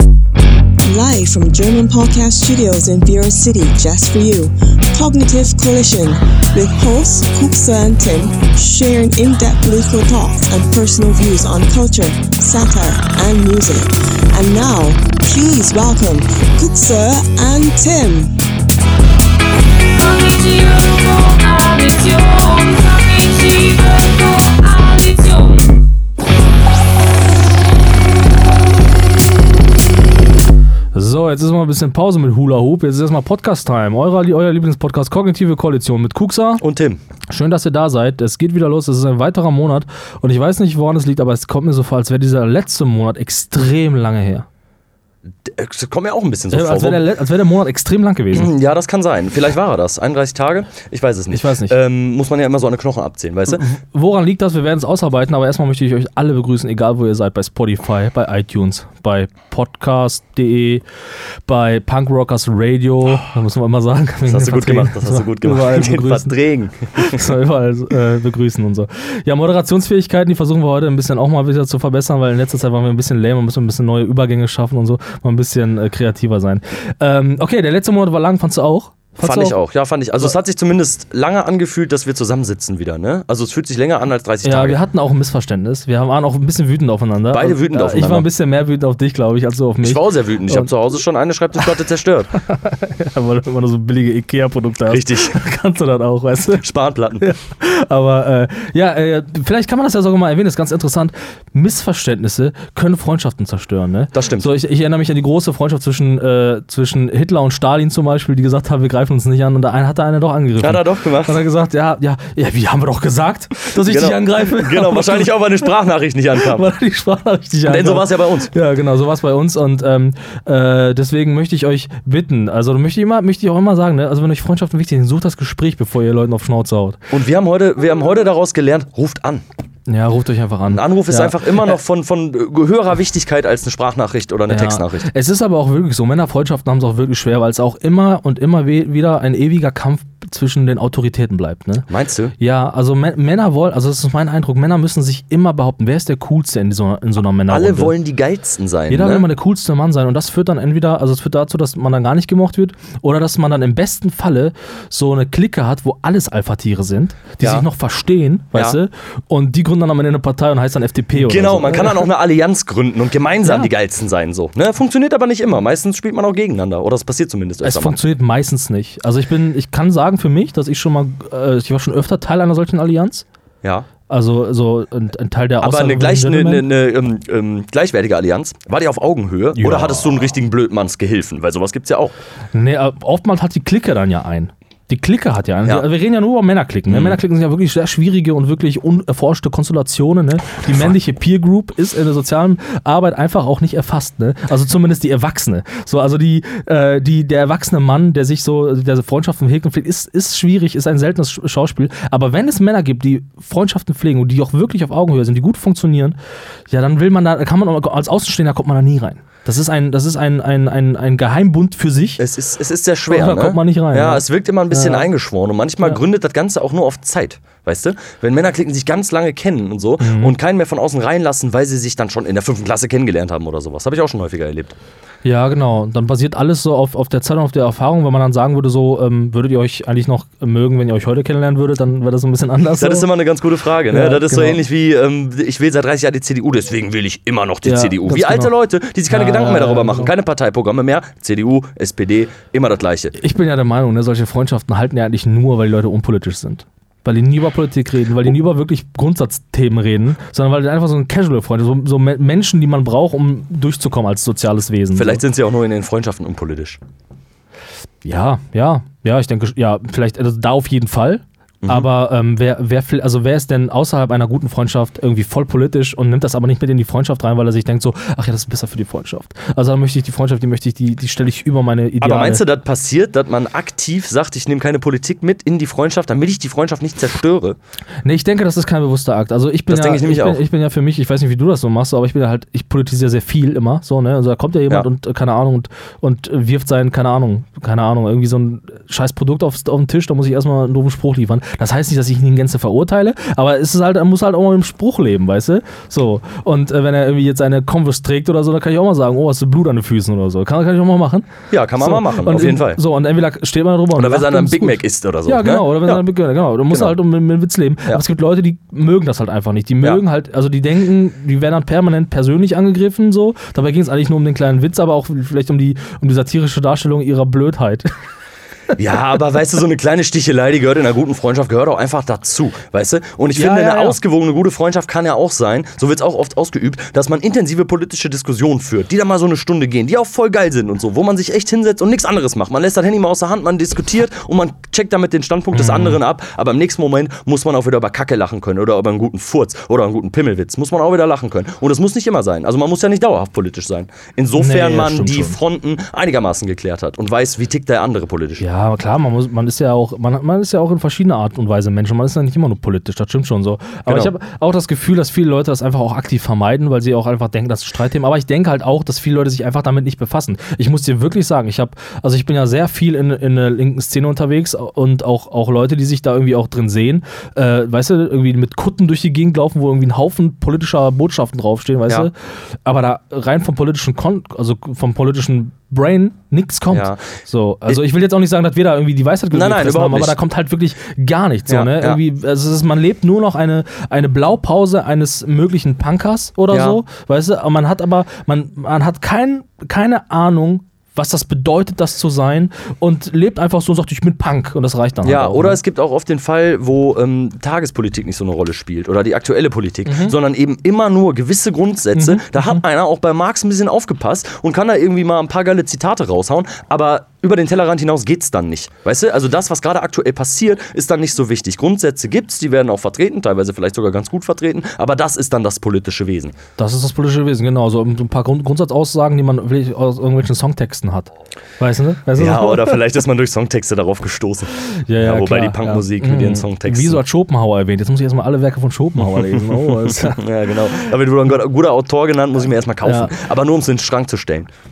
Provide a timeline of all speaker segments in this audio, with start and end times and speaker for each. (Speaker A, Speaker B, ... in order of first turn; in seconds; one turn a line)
Speaker A: 0.8-18.3
Speaker A: 19.9-25.6
Speaker B: 30.9-36.6
Speaker C: 36.6-37.0
Speaker B: 37.3-44.5
Speaker C: 45.4-47.0
Speaker B: 46.5-48.5
Speaker C: 48.3-53.6
Speaker B: 51.3-51.8
Speaker B: 53.5-60.8
Speaker B: 61.4-66.4
Speaker C: 64.3-67.3
Speaker B: 66.9-79.6
Speaker C: 79.2-84.8
Speaker B: 84.4-90.7
Speaker C: 87.3-88.3
Speaker C: 89.8-92.3
Speaker B: 92.4-96.6
Speaker C: 94.9-95.4
Speaker C: 96.5-97.3
Speaker B: 97.2-115.3
Speaker C: 104.1-104.5
Speaker C: 110.6-111.4
Speaker C: 113.7-116.7
Speaker B: 116.4-127.0
Speaker C: 117.7-118.5
Speaker C: 127.1-129.4
Speaker B: 129.9-131.8
Speaker C: 130.7-135.1
Speaker B: 134.5-147.9
Speaker C: 141.9-142.3
Speaker C: 147.5-149.3
Speaker B: 148.9-162.1
Speaker C: 161.1-168.0
Speaker B: 163.4-163.7
Speaker B: 167.6-173.2
Speaker C: 173.6-173.9
Speaker B: 174.1-176.7
Speaker C: 175.6-182.2
Speaker B: 179.6-180.1
Speaker B: 182.5-206.2
Speaker C: 186.9-187.2
Speaker B: 206.7-212.2
Speaker C: 212.2-224.8
Speaker B: 213.1-215.1
Speaker B: 220.0-220.3
Speaker B: 225.2-233.1
Speaker C: 232.8-243.2
Speaker B: 233.9-234.6
Speaker B: 237.6-238.5
Speaker B: 239.1-240.1
Speaker B: 243.2-255.2
Speaker C: 254.9-256.8
Speaker B: 258.0-272.4
Speaker C: 261.6-261.9
Speaker C: 272.0-277.6
Speaker B: 278.1-317.9
Speaker C: 279.7-280.4
Speaker C: 301.5-302.8
Speaker C: 303.9-306.0
Speaker C: 306.7-307.0
Speaker C: 318.8-348.4
Speaker B: 323.3-324.0
Speaker B: 335.6-336.0
Speaker B: 344.4-345.4
Speaker B: 348.4-395.6
Speaker C: 353.9-354.1
Speaker C: 376.7-377.1
Speaker C: 379.3-380.2
Speaker C: 381.5-382.0
Speaker C: 386.5-386.8
Speaker C: 395.0-416.4
Speaker B: 399.9-400.1
Speaker B: 401.9-402.6
Speaker B: 416.6-422.8
Speaker C: 422.2-427.0
Speaker B: 424.9-430.2
Speaker C: 429.3-434.5
Speaker B: 432.8-433.1